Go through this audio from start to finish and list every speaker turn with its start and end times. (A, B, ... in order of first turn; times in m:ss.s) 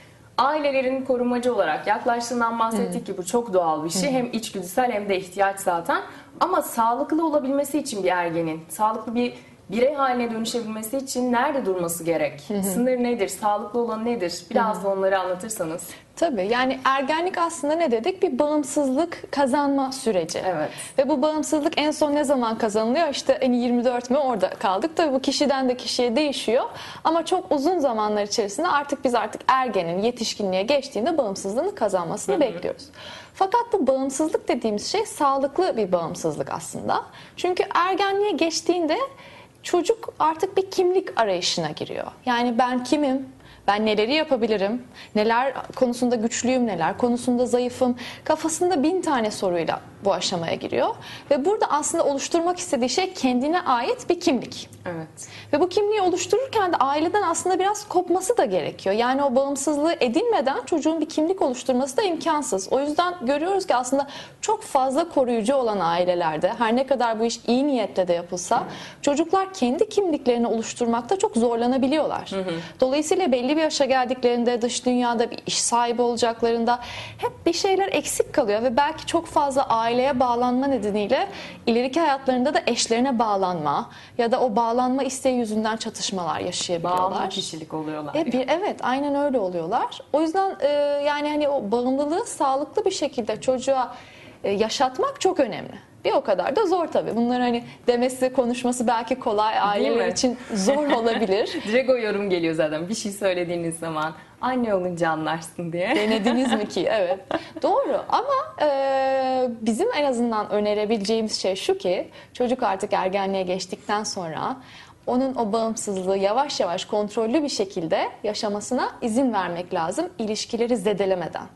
0:00.4-0:15.9 A
0:14.5-0:14.8 B
0:16.2-0:39.0 B
0:20.4-0:20.8 A
0:39.6-0:54.7 B
0:54.8-0:55.3 A
0:55.5-1:27.4 B
1:12.3-1:12.6 A
1:26.8-1:28.4 A
1:28.1-1:33.9 B
1:34.4-1:41.6 B
1:39.6-1:41.0 A
1:41.6-1:46.6 A
1:45.9-2:01.5 B